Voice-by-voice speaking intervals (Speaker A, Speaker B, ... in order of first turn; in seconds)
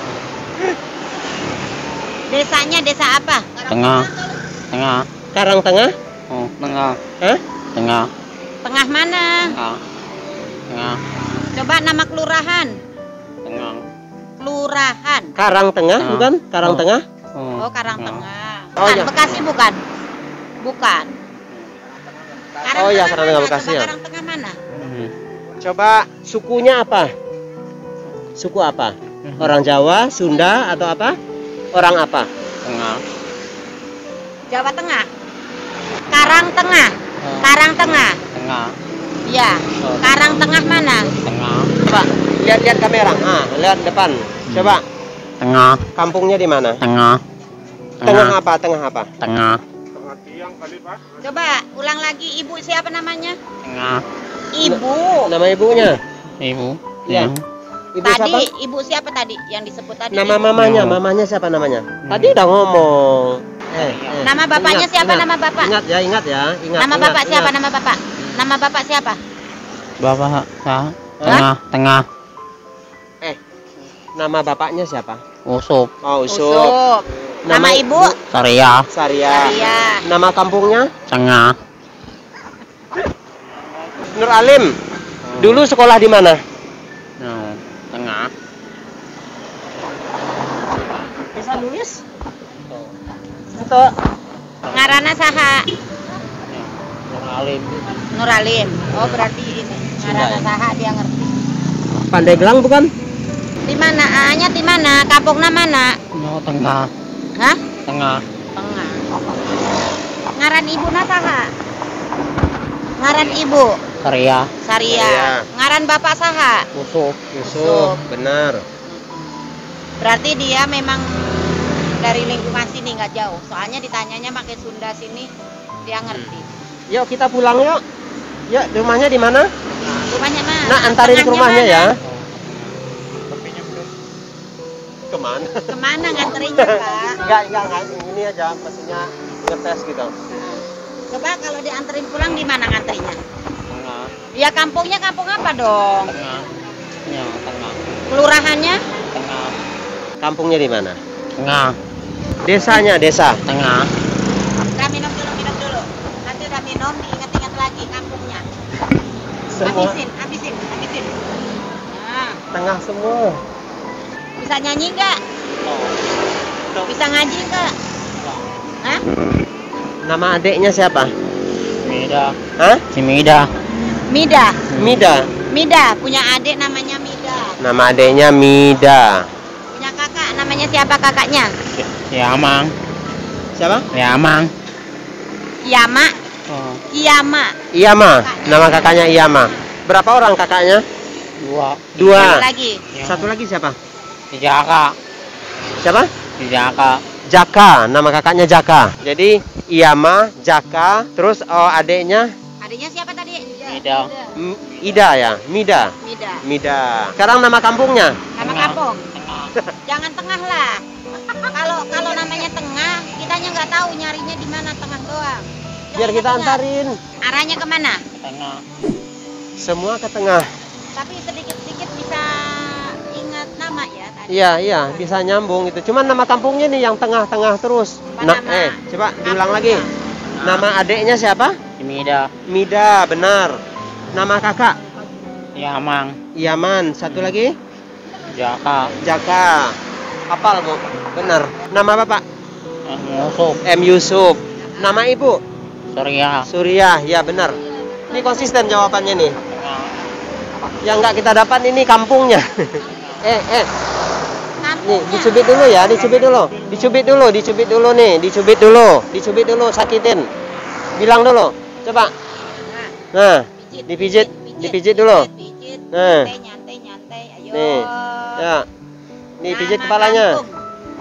Speaker A: 2.3-4.4, 8.6-9.6, 11.5-12.8, 14.4-15.3, 17.6-19.8, 20.6-21.1, 22.6-24.6, 34.5-35.1, 36.1-38.2, 39.3-41.1, 51.1-53.4, 54.5-55.3, 58.0-60.5, 64.2-65.7, 66.8-69.2, 76.3-78.2, 79.3-80.0, 94.7-95.7, 98.1-101.4, 103.7-106.0, 107.4-107.6, 108.6-109.1, 110.4-111.5, 113.0-113.8, 114.6-116.7, 117.5-118.0, 118.9-119.4, 120.0-125.3, 125.8-126.5, 129.9-131.9, 135.7-137.2, 140.3-143.2, 144.3-146.1, 148.1-148.8, 154.7-158.4, 159.6-161.2, 161.9-162.4, 164.4-165.2, 166.8-167.7, 174.1-174.6, 175.5-177.6, 179.7-181.5, 185.7-186.2, 186.9-189.6, 192.0-192.8, 202.6-203.8, 206.0-206.4, 208.3-209.1, 209.9-210.8, 211.3-216.6, 217.2-218.0, 220.9-225.1, 228.1-229.9, 244.6-245.0, 254.6-256.3, 262.4-262.9, 263.6-268.5, 269.5-270.6
Speaker B: 3.7-4.1, 4.7-5.1, 6.3-7.0, 7.8-8.1, 9.5-9.8, 10.7-11.0, 13.4-13.8, 16.0-18.2, 24.7-25.1, 29.2-29.6, 32.6-33.0, 36.2-36.5, 37.2-38.8, 39.8-40.5, 41.1-41.7, 44.5-44.8, 45.4-45.9, 46.8-47.2, 48.0-48.4, 49.2-49.6, 53.6-54.0, 56.4-57.4, 60.5-61.0, 62.0-62.4, 63.8-64.3, 70.0-72.0, 75.5-75.9, 78.3-78.9, 81.1-81.6, 85.2-85.7, 87.2-88.3, 90.8-91.0, 94.6-95.2, 96.4-97.8, 98.9-99.2, 106.1-106.9, 107.9-108.2, 114.0-114.5, 132.0-132.7, 133.3-133.8, 143.7-144.1, 146.1-146.5, 147.1-148.0, 149.1-149.6, 151.4-151.8, 153.5-153.9, 165.7-165.9, 171.8-172.4, 172.9-173.5, 174.7-175.0, 181.8-182.7, 183.9-184.5, 186.5-186.8, 191.4-192.4, 192.9-193.3, 194.3-194.9, 196.4-197.0, 203.7-204.1, 208.4-209.5, 218.2-218.6, 230.3-230.7, 231.8-232.3, 235.6-236.2, 238.3-239.0, 242.9-243.6, 245.9-246.5, 249.5-250.1, 252.9-253.2
Speaker C: 5.3-5.9, 15.4-17.0, 18.8-19.2, 22.7-23.9, 25.6-27.1, 28.4-31.2, 31.7-32.3, 41.8-44.8, 46.0-46.8, 48.0-49.1, 50.0-51.0, 54.6-56.0, 57.1-57.3, 58.0-58.5, 60.1-67.5, 71.2-71.5, 74.2-75.2, 76.0-76.7, 77.5-78.2, 78.9-80.9, 84.1-84.8, 85.4-86.4, 91.3-92.0, 93.5-93.9, 100.0-100.5, 102.1-102.9, 114.9-115.5, 116.8-118.6, 126.9-127.8, 128.5-129.5, 130.7-132.0, 135.1-135.7, 136.4-140.1, 150.2-151.0, 152.4-153.4, 159.5-160.0, 162.5-163.4, 170.0-171.1, 172.6-172.8, 174.8-175.3, 177.6-179.3, 183.6-183.9, 187.7-190.8, 192.0-192.4, 193.0-193.8, 195.8-196.1, 197.3-202.3, 204.4-208.2, 216.0-217.0, 219.6-220.5, 224.3-229.9, 230.4-231.6, 232.5-233.6, 234.1-234.8, 236.3-237.6, 239.0-239.8, 240.3-242.2, 243.6-245.4, 246.5-247.6, 248.1-249.4, 250.8-253.7, 254.8-260.3, 261.0-262.1, 263.1-265.3, 265.9-266.3, 267.5-268.7, 269.4-270.4